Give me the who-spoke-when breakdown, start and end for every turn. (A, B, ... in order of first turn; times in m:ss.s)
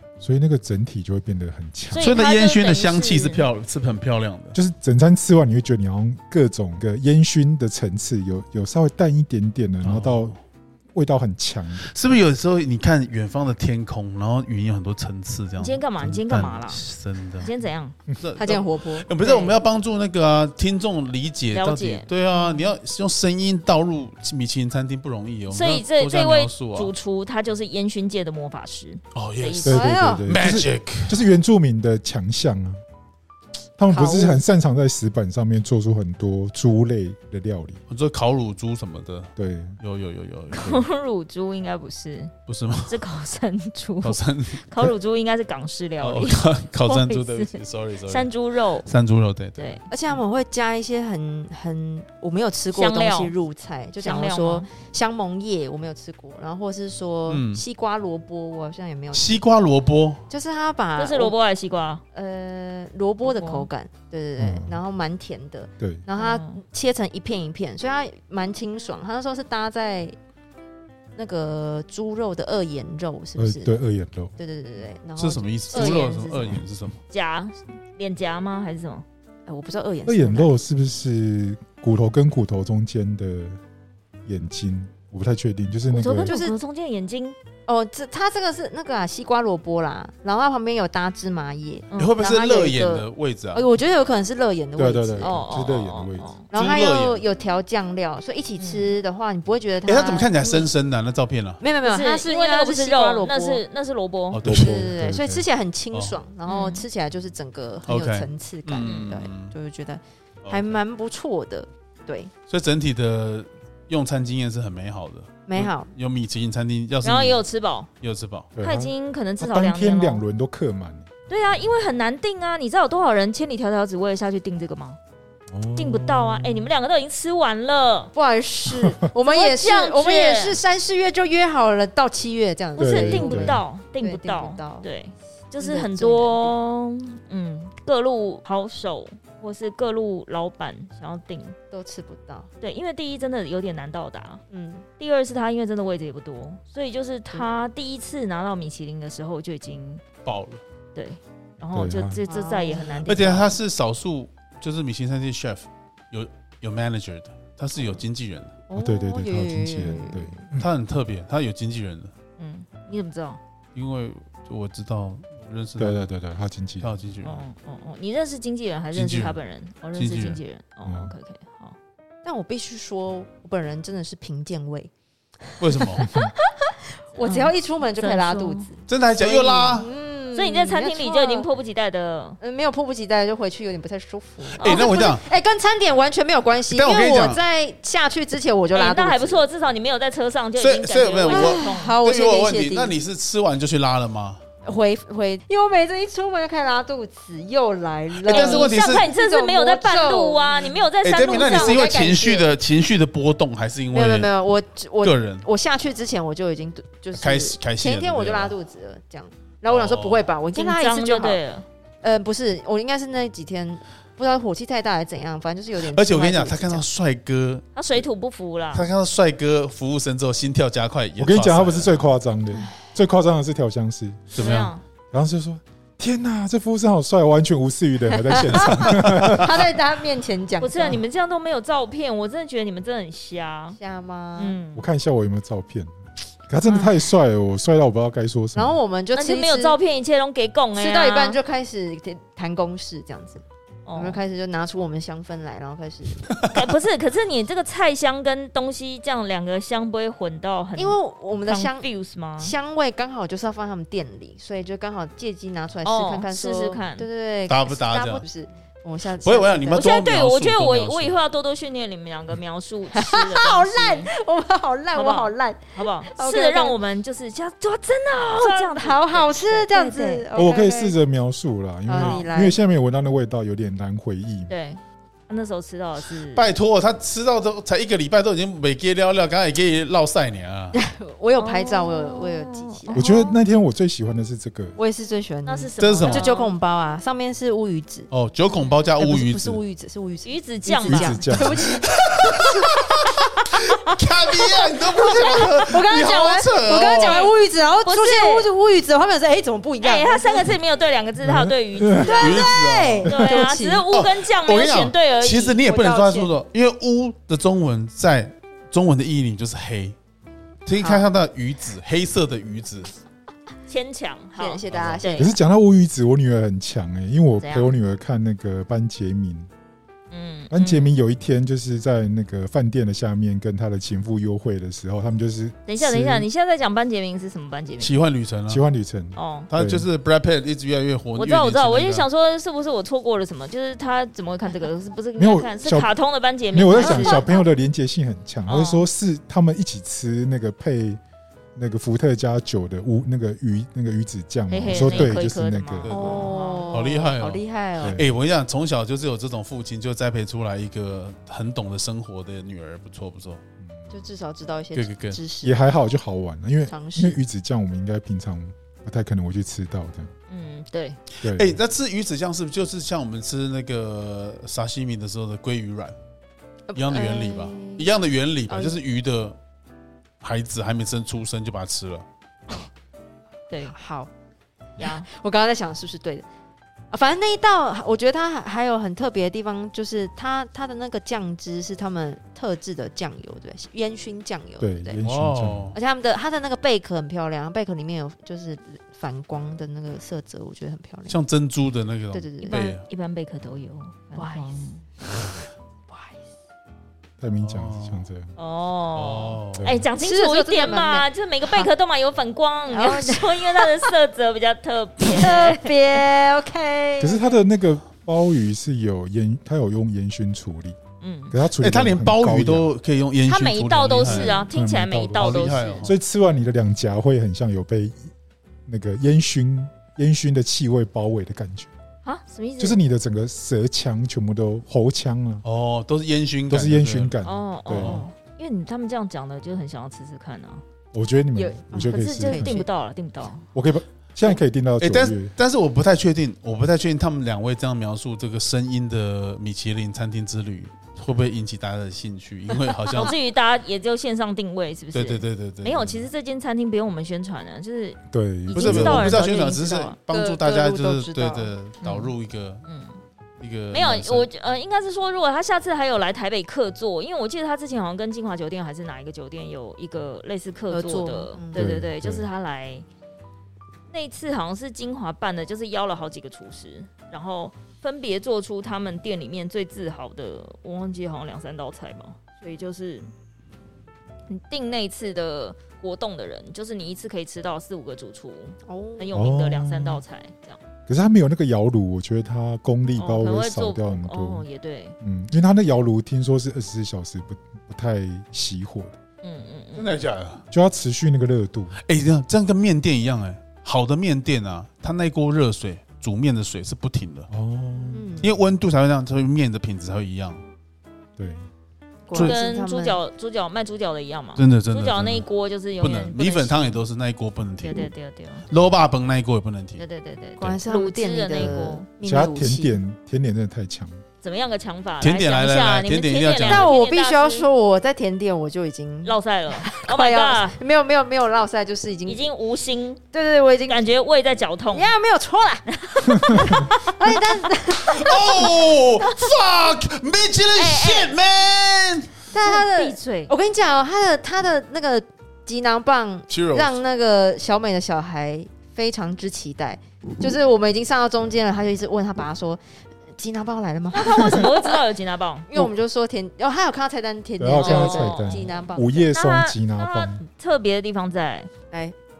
0:00.2-0:02.2 A
0:01.9-0:03.4 B
0:02.0-0:04.6 C
0:04.5-0:10.3 A
0:09.8-0:10.4 C
0:10.9-0:11.9 A
0:11.8-0:17.5 C
0:15.6-0:16.8 B
0:17.4-0:17.9 B
0:18.2-0:26.9 C
0:18.4-0:19.5 D
0:19.2-0:19.5 B
0:21.5-0:22.7 B
0:25.5-0:29.9 B
0:29.1-0:31.2 C
0:29.6-0:32.8 A
0:29.7-0:30.2 D
0:33.8-0:37.8 A
0:33.9-0:34.4 D
0:37.9-0:40.8 C
0:39.4-0:39.8 A
0:40.5-0:42.3 B
0:42.5-0:43.0 C
0:42.8-0:48.9 B
0:44.0-0:44.9 C
0:46.0-0:48.3 C
0:48.8-0:49.8 C
0:49.6-0:49.8 B
0:49.9-0:59.4 D
0:52.7-0:53.3 B
0:54.0-0:54.7 B
0:57.3-0:57.6 C
0:59.1-1:00.2 C
1:00.3-1:01.3 D
1:01.0-1:02.0 B
1:02.1-1:10.1 D
1:03.2-1:03.7 B
1:04.4-1:04.8 A
1:06.1-1:06.6 B
1:11.2-1:13.7 D
1:13.4-1:14.3 A
1:14.4-1:16.6 D
1:15.2-1:17.0 C
1:15.7-1:16.6 B
1:17.1-1:19.0 B
1:19.5-1:20.5 D
1:20.0-1:23.6 A
1:24.2-1:26.3 A
1:25.9-1:27.4 B
1:26.2-1:26.6 D
1:27.7-1:35.3 D
1:32.0-1:33.6 C
1:34.8-1:36.3 A
1:35.2-1:36.4 B
1:36.5-1:40.7 D
1:36.5-1:37.2 C
1:38.6-1:38.9 B
1:39.8-1:41.6 C
1:41.6-1:43.6 D
1:41.8-1:44.4 B
1:44.3-1:44.9 C
1:44.4-1:45.4 A
1:44.5-1:52.3 D
1:45.9-1:46.2 C
1:46.4-1:46.8 B
1:47.8-1:49.5 C
1:50.4-1:50.8 C
1:52.5-1:57.4 C
1:55.4-1:55.9 D
1:57.0-1:57.9 B
1:58.0-1:58.5 C
1:58.6-2:01.1 A
1:58.6-2:00.2 B
2:01.3-2:05.0 B
2:05.5-2:06.7 A
2:05.8-2:08.1 B
2:08.1-2:14.9 D
2:09.2-2:10.6 B
2:12.8-2:21.6 B
2:12.8-2:13.6 A
2:15.6-2:16.6 D
2:21.7-2:22.5 D
2:22.6-2:24.4 B
2:24.5-2:24.8 D
2:25.0-2:30.0 B
2:30.2-2:30.6 C
2:30.9-2:33.5 B
2:31.7-2:32.2 A
2:32.3-2:33.5 D
2:33.0-2:38.5 C
2:38.7-2:40.4 D
2:38.7-2:40.7 A
2:40.6-2:42.1 C
2:42.4-2:43.4 B
2:43.7-2:46.0 C
2:45.8-2:47.0 A
2:46.8-2:47.4 C
2:47.2-2:51.8 B
2:48.9-2:49.4 C
2:49.9-2:50.4 C
2:50.8-2:51.1 A
2:52.2-2:54.9 D
2:55.5-3:01.5 D
2:55.6-2:56.1 C
2:57.2-2:58.7 B
2:58.9-2:59.9 C
2:59.2-2:59.8 B
3:00.3-3:02.4 B
3:02.4-3:09.4 D
3:04.5-3:05.2 C
3:04.6-3:05.1 B
3:06.7-3:07.4 C
3:08.7-3:12.0 B
3:10.6-3:14.4 C
3:11.3-3:12.9 D
3:14.6-3:22.5 D
3:18.2-3:19.0 C
3:18.2-3:21.9 B
3:21.0-3:24.3 C
3:23.9-3:31.4 D
3:25.0-3:25.4 C
3:27.1-3:28.5 C
3:29.7-3:30.3 C
3:30.5-3:31.6 B
3:32.0-3:36.8 D
3:35.8-3:38.0 C
3:37.7-3:38.9 B
3:38.7-3:42.0 C
3:41.2-3:44.4 A
3:42.5-3:42.8 D
3:44.3-3:44.8 B
3:44.3-3:44.7 C
3:45.1-3:49.7 A
3:48.2-3:51.0 D
3:50.6-3:53.8 B
3:53.8-3:54.6 D
3:54.4-3:54.8 B
3:54.7-3:55.9 A
3:56.5-3:58.8 A
3:56.7-3:57.0 D
3:58.5-3:59.8 D
3:59.1-4:01.4 B
4:00.7-4:03.4 D
4:03.8-4:04.2 B
4:03.9-4:06.4 D
4:06.5-4:12.5 B
4:10.8-4:19.9 D
4:15.8-4:17.0 B
4:17.5-4:18.2 C
4:19.1-4:21.2 C
4:19.8-4:24.1 B
4:22.9-4:26.8 D
4:24.9-4:30.2 B
4:28.4-4:30.9 D
4:30.3-4:34.5 A
4:31.9-4:32.6 D
4:31.9-4:32.3 B
4:34.5-4:36.5 B
4:36.3-4:40.8 C
4:40.7-4:43.2 D
4:41.4-4:43.4 B
4:42.9-4:44.8 A
4:44.8-4:48.1 D
4:45.4-4:46.5 B
4:45.8-4:46.3 C
4:48.1-4:49.6 C
4:49.0-4:52.7 D
4:50.2-4:51.4 B
4:50.8-4:51.7 A
4:51.8-4:57.3 C
4:55.0-5:00.5 D
4:55.3-4:56.2 B
4:56.7-4:58.5 B
4:59.8-5:02.5 B
5:01.2-5:02.3 A
5:01.9-5:03.8 D
5:02.0-5:03.2 C
5:03.0-5:05.6 B
5:03.9-5:09.9 C
5:05.6-5:06.3 D
5:10.6-5:12.9 C
5:10.8-5:11.1 D
5:13.7-5:15.3 B
5:14.4-5:15.4 D
5:14.7-5:15.0 C
5:15.2-5:19.5 A
5:17.4-5:17.7 B
5:20.1-5:21.0 B
5:20.5-5:26.3 A
5:25.6-5:27.9 B
5:27.8-5:28.6 C
5:28.5-5:29.9 A
5:29.1-5:29.5 B
5:29.5-5:32.1 C
5:31.2-5:37.4 B
5:35.2-5:35.9 A
5:36.5-5:41.0 A
5:36.7-5:37.4 D
5:38.4-5:38.9 B
5:41.6-5:45.9 A
5:44.5-5:46.7 B
5:44.7-5:45.2 C
5:45.8-5:53.4 C
5:45.9-5:48.0 D
5:47.8-5:48.1 A
5:53.9-5:55.6 D
5:54.7-5:55.2 C
5:55.4-6:00.1 A
5:56.7-5:57.2 D
6:00.3-6:01.0 B
6:01.2-6:05.9 C
6:01.2-6:01.6 A
6:06.7-6:07.9 D
6:06.7-6:09.4 C
6:08.5-6:08.8 D
6:10.2-6:12.0 C
6:13.5-6:13.7 B
6:13.7-6:14.1 D
6:14.8-6:15.1 B
6:14.8-6:16.2 D
6:16.9-6:25.0 D
6:24.6-6:25.7 A
6:25.0-6:25.8 C
6:25.7-6:31.2 D
6:31.1-6:32.8 C
6:32.1-6:32.7 D
6:32.4-6:34.8 B
6:34.1-6:34.7 D
6:35.9-6:36.2 D
6:37.2-6:38.3 A
6:37.4-6:38.0 C
6:38.4-6:46.0 B
6:38.9-6:39.7 C
6:39.5-6:39.8 A
6:40.0-6:41.7 D
6:42.7-6:43.9 D
6:45.0-6:47.2 D
6:47.0-6:50.8 A
6:51.0-6:51.3 B
6:51.3-6:52.7 A
6:51.6-6:54.4 C
6:53.2-6:55.9 B
6:54.0-6:58.1 A
6:55.2-6:55.9 C
6:58.7-7:01.7 A
7:02.0-7:02.8 B
7:02.6-7:05.4 A
7:05.4-7:07.2 C
7:06.5-7:08.0 A
7:07.2-7:10.6 B
7:07.7-7:08.0 C
7:10.9-7:12.6 A
7:11.3-7:12.7 D
7:11.8-7:13.4 B
7:13.5-7:15.3 A
7:14.8-7:23.1 C
7:22.9-7:30.0 B
7:24.9-7:26.1 C
7:28.1-7:29.3 A
7:28.5-7:32.6 C
7:30.1-7:31.5 D
7:31.8-7:32.1 B
7:32.6-7:33.0 B
7:33.4-7:34.3 C
7:33.7-7:42.8 B
7:40.7-7:41.7 D
7:41.5-7:42.3 A
7:43.9-7:53.1 B
7:54.3-8:00.6 B
7:58.6-7:59.1 D
7:59.1-8:00.0 A
8:00.9-8:04.4 A
8:03.0-8:05.0 B
8:05.0-8:09.0 A
8:09.2-8:09.9 B
8:09.8-8:10.4 C
8:10.5-8:11.8 A
8:11.8-8:17.3 C
8:17.3-8:18.4 A
8:17.9-8:18.3 D
8:18.2-8:20.4 C
8:21.2-8:21.5 A
8:22.1-8:23.0 D
8:22.1-8:26.8 B
8:24.4-8:25.2 C
8:25.8-8:27.9 C
8:27.6-8:28.4 B
8:28.5-8:29.8 C
8:29.8-8:31.9 B
8:30.4-8:32.8 D
8:32.0-8:34.0 A
8:34.2-8:37.4 B
8:35.0-8:36.7 C
8:36.4-8:42.2 D
8:39.0-8:40.6 B
8:42.0-8:43.0 B
8:43.1-8:43.8 D
8:43.7-8:44.9 B
8:44.7-8:49.2 D
8:45.8-8:47.1 B
8:47.8-8:52.1 C
8:50.5-8:51.2 B
8:52.3-9:04.8 D
8:52.4-8:53.3 B
8:56.3-8:56.8 C
9:03.9-9:05.5 B
9:05.5-9:09.1 D
9:07.4-9:10.2 A
9:07.5-9:11.5 B
9:11.7-9:11.9 D